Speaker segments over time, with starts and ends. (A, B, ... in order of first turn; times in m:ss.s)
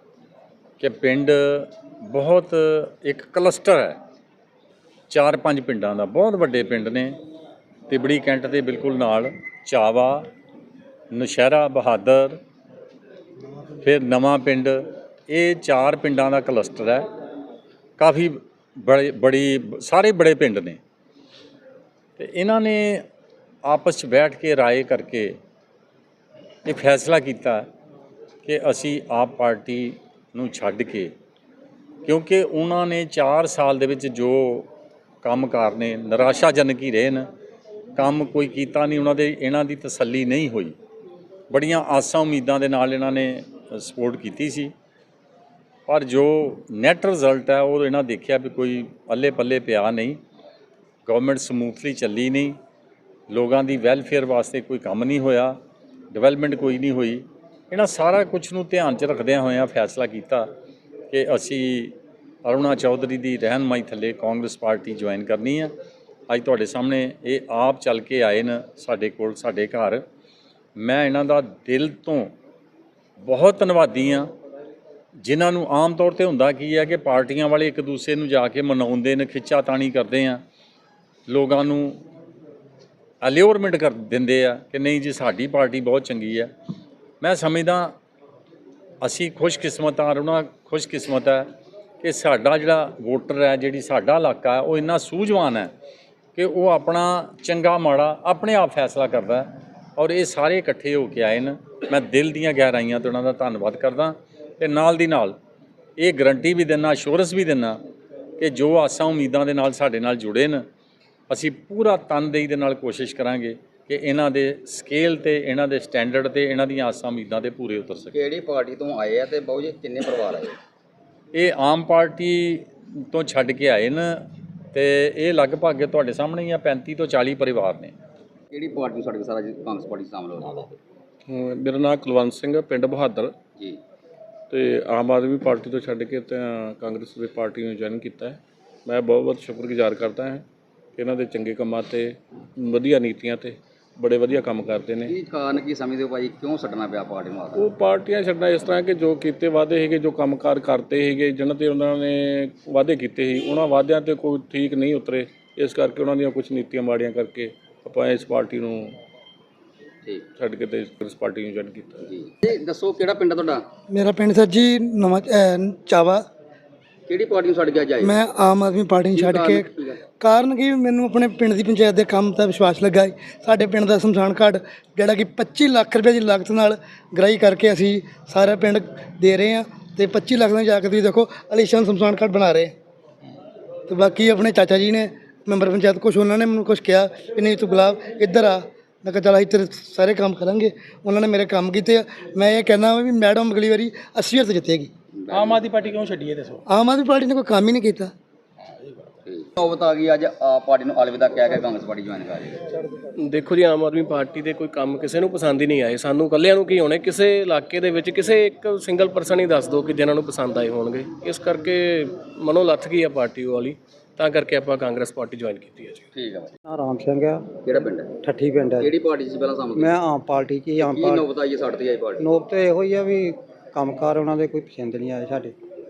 0:00.8-0:04.0 A
0:05.1-0:07.2 A
0:07.9-0:10.3 A
0:11.1-0:12.4 A
0:13.8-0:17.1 A
0:18.0-0:20.8 A
0:22.2-0:23.0 A
0:23.7-0:25.4 A
0:26.6-0:27.7 A
0:28.4-0:31.1 A
0:32.0-0:34.7 A
0:35.2-0:37.3 A
0:38.0-0:40.8 A
0:41.5-0:44.7 A
0:45.9-0:50.2 A
0:51.1-0:52.6 A
0:53.3-0:55.6 A
0:56.1-1:00.5 A
1:01.1-1:05.7 A
1:06.3-1:10.0 A
1:10.8-1:12.3 A
1:13.2-1:14.3 A
1:15.2-1:20.4 A
1:21.3-1:22.0 A
1:23.2-1:26.5 A
1:27.2-1:27.9 A
1:29.0-1:31.5 A
1:32.0-1:35.7 A
1:36.4-1:45.4 A
1:46.0-1:47.8 A
1:48.4-1:50.6 A
1:51.3-1:58.2 A
1:58.1-2:00.5 B
2:01.3-2:07.9 A
2:08.5-2:10.6 B
2:11.3-2:13.4 C
2:14.5-2:20.4 C
2:21.0-2:25.2 C
2:25.1-2:27.6 B
2:27.6-2:39.0 C
2:40.4-2:42.2 C
2:42.7-2:43.6 B
2:43.9-2:46.2 D
2:47.1-2:48.1 B
2:48.0-3:02.7 D
2:49.1-2:49.9 B
3:03.9-3:14.9 D
3:16.7-3:18.1 D
3:19.3-3:22.4 B
3:23.2-3:36.1 E
3:36.6-3:39.0 F
3:37.7-3:38.1 B
3:38.8-3:39.8 B
3:39.8-3:41.3 F
3:40.9-3:42.2 B
3:42.2-3:45.6 F